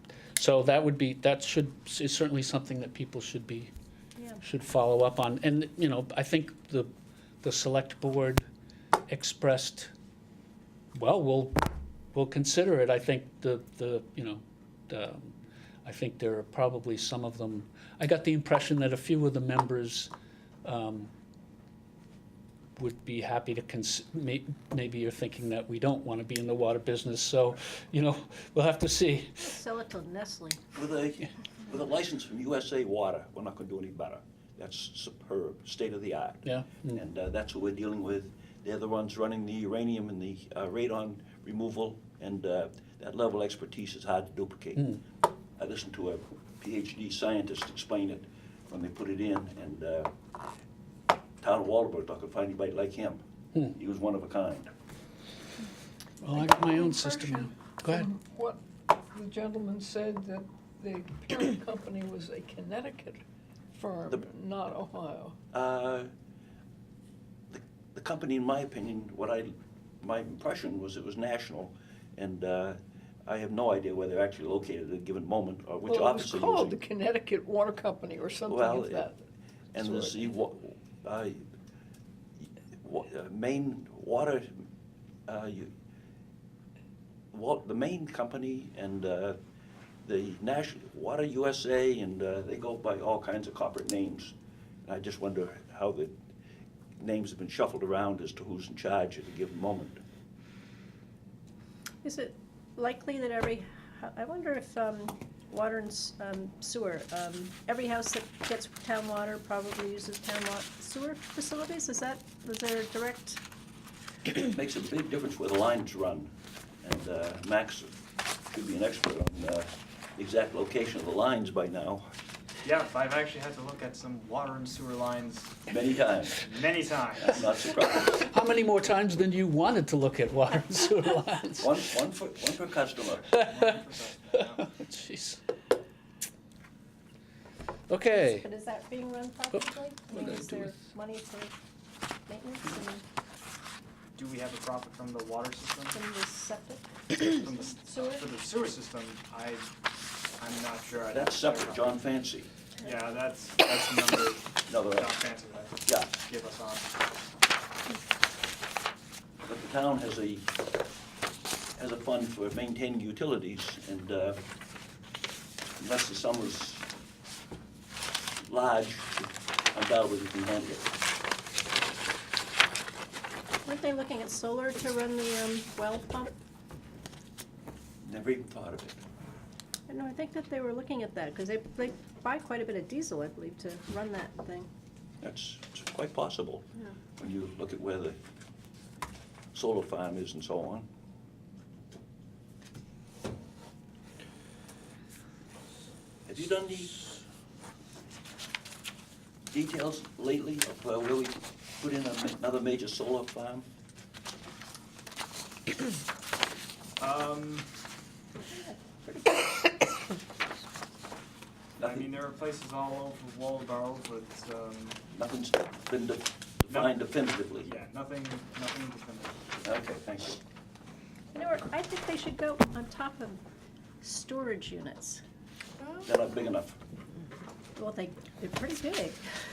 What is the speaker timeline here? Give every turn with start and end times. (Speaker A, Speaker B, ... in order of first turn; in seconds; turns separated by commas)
Speaker A: 0.3-3.7, Speaker B: 4.2-4.4, Speaker A: 4.4-6.9, Speaker A: 7.4-8.5, Speaker A: 9.1-9.9, Speaker A: 10.9-11.6, Speaker A: 12.1-20.1, Speaker A: 20.6-21.1, Speaker A: 22.8-29.6, Speaker B: 29.4-30.6, Speaker C: 30.7-45.0, Speaker A: 36.4-37.0, Speaker C: 45.6-50.1, Speaker C: 51.4-53.2, Speaker C: 53.7-54.7, Speaker A: 56.2-58.1, Speaker D: 56.4-58.6, Speaker D: 59.1-63.2, Speaker D: 63.7-65.3, Speaker C: 65.5-66.1, Speaker C: 67.5-76.8, Speaker D: 75.8-79.2, Speaker C: 78.5-79.0, Speaker C: 79.7-81.4, Speaker D: 79.8-80.2, Speaker C: 82.4-84.5, Speaker C: 85.3-85.7, Speaker C: 87.3-89.4, Speaker C: 90.0-94.3, Speaker C: 94.8-96.1, Speaker C: 97.0-100.0, Speaker B: 102.0-113.4, Speaker C: 114.2-118.0, Speaker C: 118.5-122.1, Speaker E: 122.6-125.7, Speaker C: 125.7-126.5, Speaker E: 126.3-127.5, Speaker C: 127.2-128.3, Speaker A: 128.1-131.7, Speaker C: 131.6-133.4, Speaker E: 133.3-134.7, Speaker A: 133.3-133.6, Speaker A: 134.6-135.4, Speaker A: 137.9-138.4, Speaker B: 138.1-141.5, Speaker A: 139.5-140.7, Speaker B: 142.3-143.0, Speaker E: 144.1-146.0, Speaker B: 145.9-148.2, Speaker E: 147.2-149.7, Speaker E: 150.4-152.0, Speaker C: 151.1-152.5, Speaker E: 152.8-156.9, Speaker C: 154.7-155.1, Speaker C: 155.8-156.1, Speaker C: 159.4-160.5, Speaker C: 161.8-164.4, Speaker C: 165.8-166.8, Speaker C: 168.4-170.9, Speaker B: 173.6-176.3, Speaker C: 178.0-179.0, Speaker B: 179.9-184.7, Speaker C: 185.2-188.2, Speaker C: 189.5-190.9, Speaker C: 196.3-197.0, Speaker C: 199.5-203.7, Speaker E: 207.0-207.7, Speaker B: 208.5-209.8, Speaker C: 211.8-212.0, Speaker E: 211.8-215.0, Speaker C: 215.1-217.7, Speaker E: 216.7-217.0, Speaker E: 217.6-219.4, Speaker C: 219.6-220.4, Speaker B: 221.3-223.4, Speaker B: 224.0-225.2, Speaker C: 226.0-226.8, Speaker B: 227.8-229.2